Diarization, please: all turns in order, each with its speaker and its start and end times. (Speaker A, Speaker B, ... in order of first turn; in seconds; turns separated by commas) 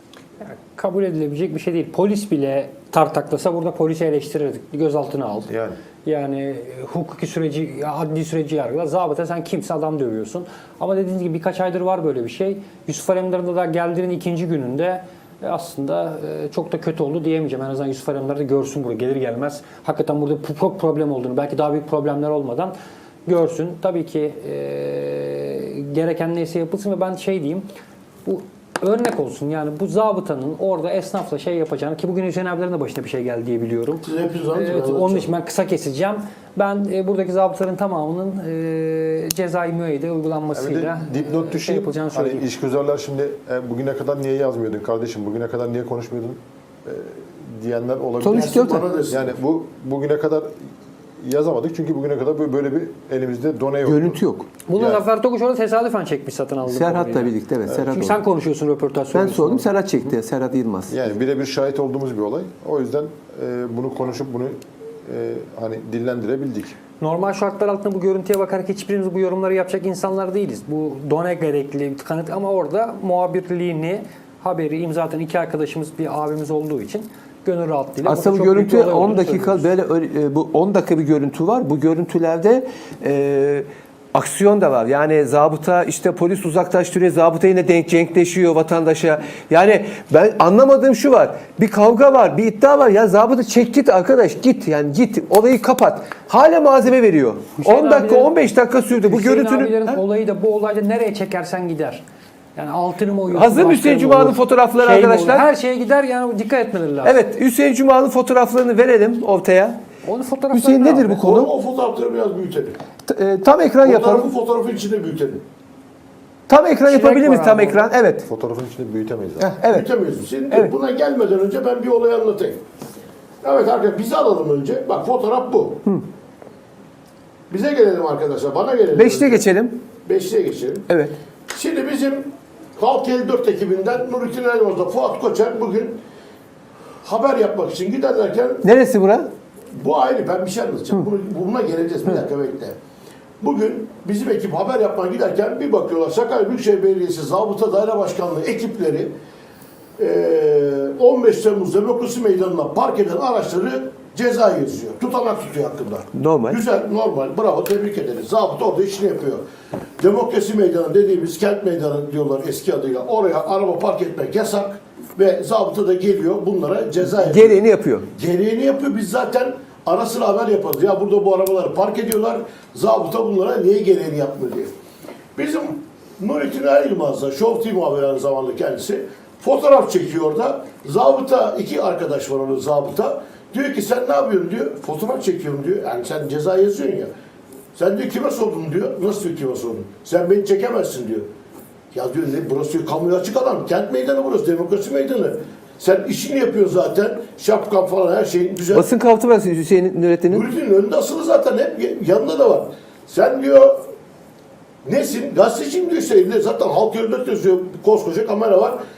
Speaker A: 0.5-5.5, Speaker B: 5.5-5.8, Speaker A: 6.0-22.7, Speaker A: 23.2-27.7, Speaker A: 28.2-42.5, Speaker C: 34.0-35.3, Speaker B: 40.5-54.2, Speaker D: 48.2-48.9, Speaker C: 48.3-49.3, Speaker D: 53.8-54.5, Speaker A: 54.7-60.1, Speaker B: 54.7-55.0, Speaker D: 56.6-58.2, Speaker D: 59.1-60.9, Speaker B: 60.9-66.8, Speaker A: 67.0-79.7, Speaker D: 78.0-100.0, Speaker A: 97.6-102.0, Speaker A: 102.5-107.2, Speaker D: 103.3-105.5, Speaker D: 107.0-109.8, Speaker A: 110.0-111.2, Speaker D: 110.5-111.5, Speaker C: 111.2-112.8, Speaker D: 113.0-114.3, Speaker C: 113.8-115.4, Speaker D: 116.5-118.2, Speaker A: 116.9-117.8, Speaker B: 118.2-119.5, Speaker D: 119.4-119.9, Speaker C: 119.7-122.6, Speaker C: 123.4-125.8, Speaker C: 127.5-129.5, Speaker D: 128.9-129.8, Speaker C: 130.0-130.9, Speaker D: 130.9-131.2, Speaker C: 131.5-136.0, Speaker C: 137.0-138.6, Speaker D: 138.6-139.3, Speaker C: 139.8-142.8, Speaker C: 143.4-149.1, Speaker C: 150.0-159.4, Speaker D: 156.1-156.6, Speaker C: 160.0-174.7, Speaker D: 167.0-168.1, Speaker C: 175.3-187.1, Speaker C: 187.7-191.3, Speaker C: 191.9-198.9, Speaker D: 198.7-200.5, Speaker C: 200.3-203.8, Speaker C: 204.8-208.8